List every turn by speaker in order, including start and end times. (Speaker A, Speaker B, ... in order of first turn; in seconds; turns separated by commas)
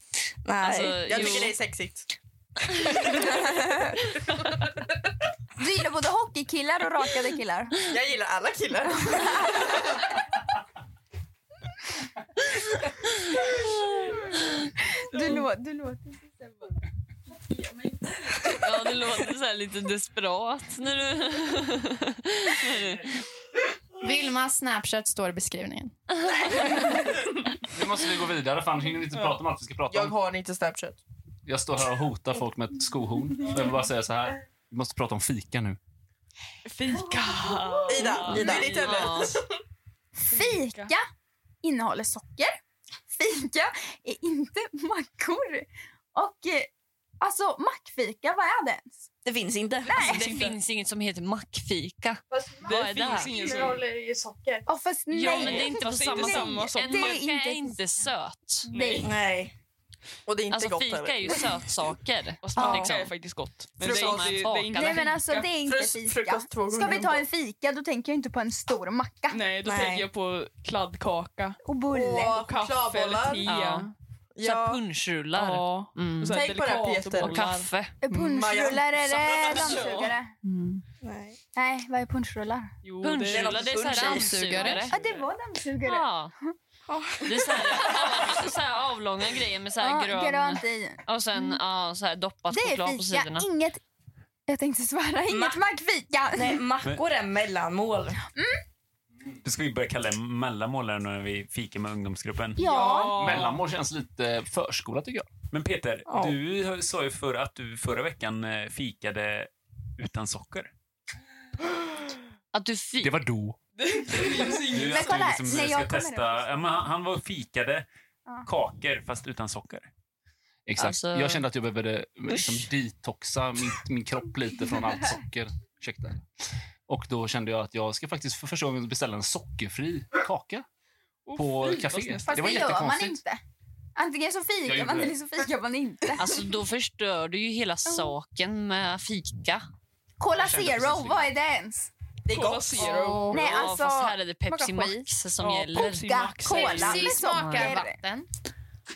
Speaker A: 0.4-1.4, Speaker B: 0.6-1.5, Speaker C: 1.0-2.1, Speaker B: 2.7-3.3, Speaker C: 2.9-3.7, Speaker A: 3.1-3.9, Speaker D: 5.6-7.9, Speaker C: 7.8-9.7, Speaker D: 15.0-16.5, Speaker B: 18.6-23.2, Speaker E: 24.0-25.9, Speaker B: 26.3-26.7, Speaker F: 27.7-30.1, Speaker G: 29.1-29.4, Speaker C: 29.9-31.0, Speaker F: 31.4-35.8, Speaker G: 36.6-39.2, Speaker C: 37.9-39.5, Speaker B: 38.2-39.4, Speaker A: 38.3-38.8, Speaker D: 40.2-41.0, Speaker G: 40.3-40.9, Speaker D: 41.6-42.6, Speaker D: 43.1-46.7, Speaker D: 47.2-49.0, Speaker A: 49.2-50.2, Speaker D: 49.9-50.5, Speaker B: 49.9-53.4, Speaker C: 52.3-54.7, Speaker G: 52.6-53.8, Speaker D: 54.7-57.8, Speaker B: 55.1-58.7, Speaker G: 55.2-57.2, Speaker D: 58.7-59.1, Speaker G: 58.7-59.1, Speaker A: 59.0-59.5, Speaker C: 60.2-61.4, Speaker B: 60.5-63.1, Speaker G: 62.4-65.5, Speaker A: 62.6-62.9, Speaker B: 63.8-65.2, Speaker C: 63.8-64.4, Speaker D: 64.7-69.5, Speaker C: 65.5-67.2, Speaker G: 69.3-71.6, Speaker A: 69.6-70.1, Speaker D: 71.6-72.4, Speaker C: 71.9-73.5, Speaker G: 72.3-73.9, Speaker B: 73.5-73.9, Speaker C: 74.3-74.8, Speaker B: 74.4-76.4, Speaker G: 75.3-77.7, Speaker C: 76.3-77.4, Speaker B: 77.2-77.9, Speaker D: 78.0-80.3, Speaker C: 78.1-79.9, Speaker G: 79.3-80.1, Speaker B: 80.4-80.8, Speaker A: 81.0-81.4, Speaker D: 81.5-82.7, Speaker G: 82.8-83.6, Speaker B: 83.0-85.0, Speaker A: 83.2-84.4, Speaker E: 83.9-85.0, Speaker G: 84.6-85.3, Speaker D: 84.9-86.5, Speaker B: 85.8-86.3, Speaker A: 86.9-88.2, Speaker B: 87.2-93.5, Speaker D: 89.8-91.6, Speaker D: 92.5-93.8, Speaker D: 94.5-96.6, Speaker A: 95.3-95.6, Speaker A: 96.3-98.2, Speaker H: 99.4-102.6, Speaker D: 102.6-103.4, Speaker G: 102.6-103.6, Speaker F: 103.1-105.3, Speaker H: 105.5-110.7, Speaker A: 106.1-106.3, Speaker B: 112.5-113.1, Speaker F: 113.0-113.5, Speaker G: 113.8-115.4, Speaker H: 114.4-117.9, Speaker D: 114.7-116.5, Speaker H: 118.4-119.9, Speaker F: 120.7-126.2, Speaker B: 120.8-121.4, Speaker A: 122.3-122.7, Speaker F: 126.9-130.6, Speaker G: 131.2-132.5, Speaker F: 131.3-133.2, Speaker D: 132.3-133.4, Speaker D: 133.9-136.4, Speaker F: 134.6-135.2, Speaker B: 136.2-139.6, Speaker D: 137.8-138.1, Speaker D: 140.2-141.9, Speaker F: 140.4-141.3, Speaker A: 142.3-142.8, Speaker G: 142.3-143.4, Speaker E: 142.8-143.7, Speaker B: 143.2-146.0, Speaker D: 143.3-144.2, Speaker E: 144.5-145.1, Speaker G: 145.4-147.1, Speaker D: 145.8-148.0, Speaker E: 146.5-148.3, Speaker B: 146.5-147.7